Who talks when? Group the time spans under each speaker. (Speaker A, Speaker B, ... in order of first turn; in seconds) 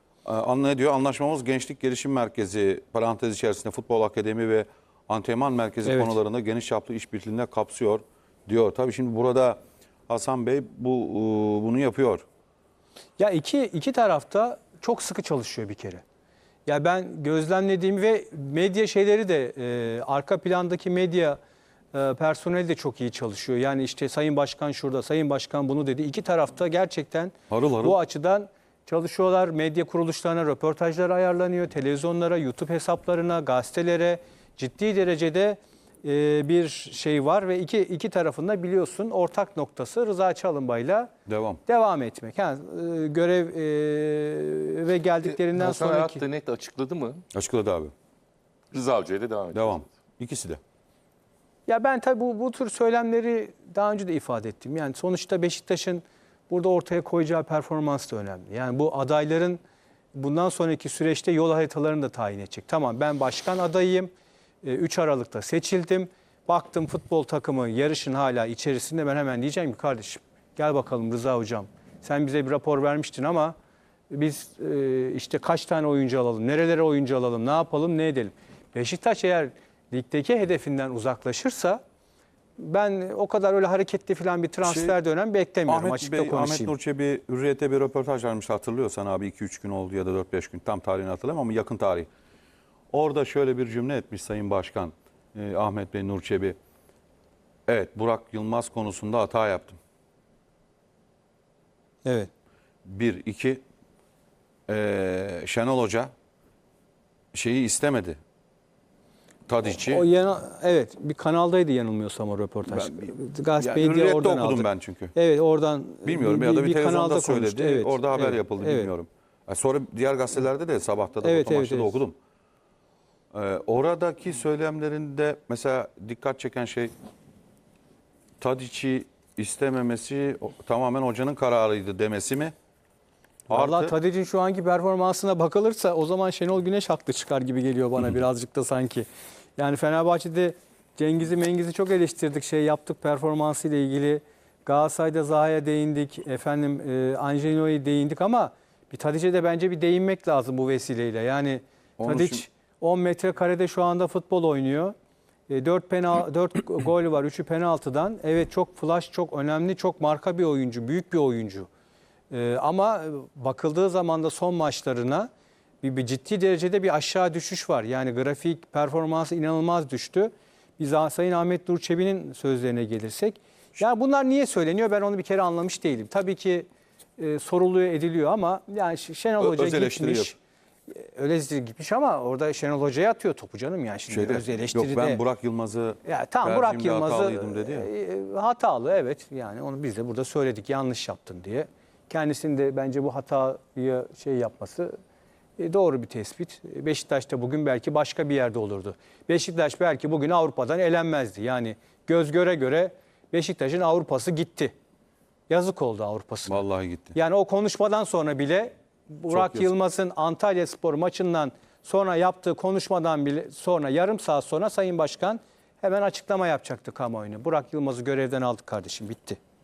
Speaker A: 0.2-12.2, 27.5-28.0, 41.3-41.6, 47.3-47.9, 49.5-50.6, 84.6-85.0, 85.7-92.1, 92.9-96.6, 97.7-99.8, 102.8-103.6, 104.7-106.1, 107.3-108.2, 109.5-110.0, 112.7-115.1, 116.0-122.2, 123.3-126.9, 128.4-132.5, 133.5-133.9, 152.0-152.4, 179.4-180.3, 184.1-187.9, 206.5-207.2, 209.3-209.7
Speaker B: 5.8-6.2, 13.2-16.0, 16.6-21.4, 21.9-41.1, 41.7-46.2, 51.7-59.6, 60.1-64.1, 64.6-73.5, 74.1-81.8, 82.6-86.7, 109.6-118.9, 121.2-122.0, 133.5-154.9, 155.5-161.7, 162.3-165.3, 165.8-180.4, 180.9-185.2, 186.0-194.9, 195.6-204.7, 205.5-206.6, 207.1-219.4
Speaker C: 45.2-47.2, 48.7-49.9